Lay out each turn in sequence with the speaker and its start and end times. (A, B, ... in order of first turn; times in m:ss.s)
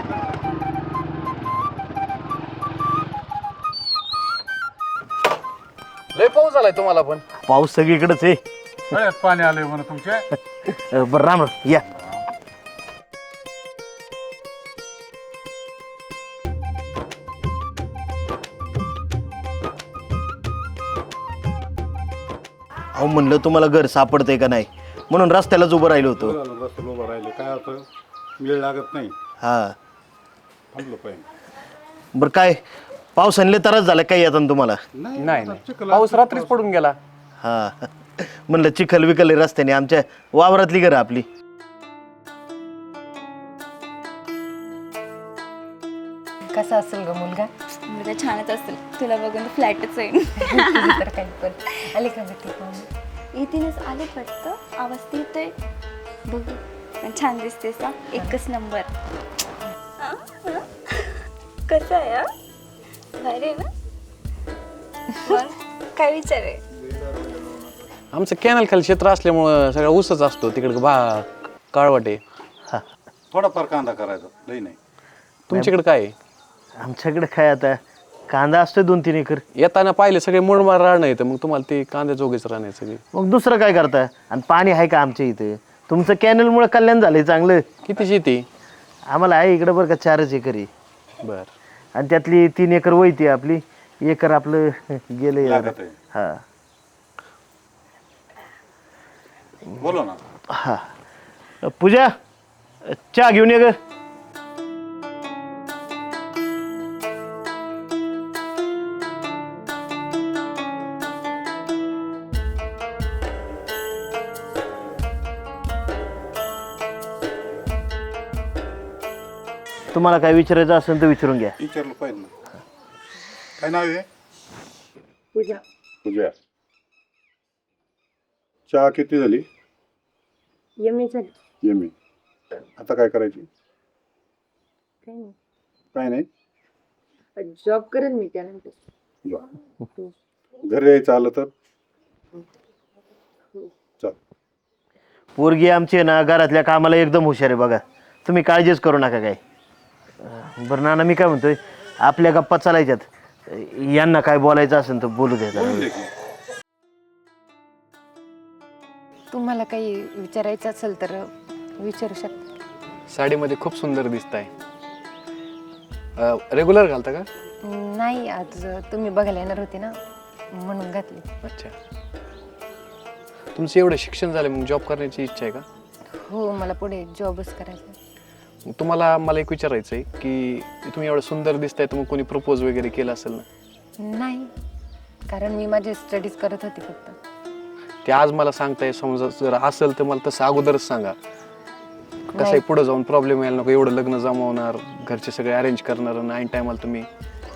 0:06.1-0:07.2 A
0:07.4-0:08.4 B
0:08.9-0:10.3 C
0:10.6-0:11.8 B
0:12.0-0:12.2 C
0:22.9-0:26.4 B
0:26.1-0:27.9 C
0:28.4-0:29.1 C
0:29.4-0:29.7 B
0:30.7-0:31.2 C
0:32.1-0:32.6 B
0:33.2-0:34.8 B
0:34.9-0:36.6 C
0:35.2-0:37.0 A
0:37.4-0:41.3 B
0:46.5-0:47.5 D
0:47.9-0:50.8 E
0:50.4-0:52.9 D
0:53.3-0:55.5 E
0:56.3-0:58.9 E
1:00.0-1:01.1 E
1:01.7-1:02.3 E
1:03.2-1:03.7 E
1:05.2-1:06.6 E
1:08.1-1:12.2 A
1:13.3-1:14.8 C
1:15.5-1:16.1 A
1:16.8-1:17.8 B
1:18.3-1:19.4 B
1:19.6-1:23.0 A
1:23.1-1:27.6 B
1:27.8-1:28.4 A
1:29.1-1:30.7 B
1:31.2-1:31.5 A
1:31.9-1:36.4 B
1:35.4-1:35.9 C
1:39.8-1:40.2 C
1:40.5-1:40.9 B
1:41.6-1:42.1 B
1:42.8-1:43.7 B
1:59.9-2:01.6 B
2:01.6-2:02.3 C
2:03.6-2:04.0 C
2:05.3-2:05.6 D
2:06.0-2:06.3 C
2:08.7-2:09.4 C
2:10.8-2:11.3 D
2:11.6-2:11.9 C
2:12.8-2:13.5 C
2:15.0-2:15.3 D
2:15.9-2:16.3 C
2:17.4-2:18.8 D
2:20.6-2:21.5 C
2:25.4-2:29.4 B
2:30.2-2:35.9 B
2:35.5-2:36.1 C
2:39.3-2:42.4 D
2:43.1-2:44.5 A
2:46.2-2:47.3 A
2:47.6-2:50.0 D
2:50.5-2:51.2 D
2:51.4-2:51.7 A
2:53.5-2:55.6 A
2:56.1-2:58.0 D
2:58.6-3:03.4 A
3:04.0-3:04.5 D
3:05.3-3:07.2 D
3:08.0-3:11.2 A
3:12.3-3:12.6 D
3:12.4-3:17.1 A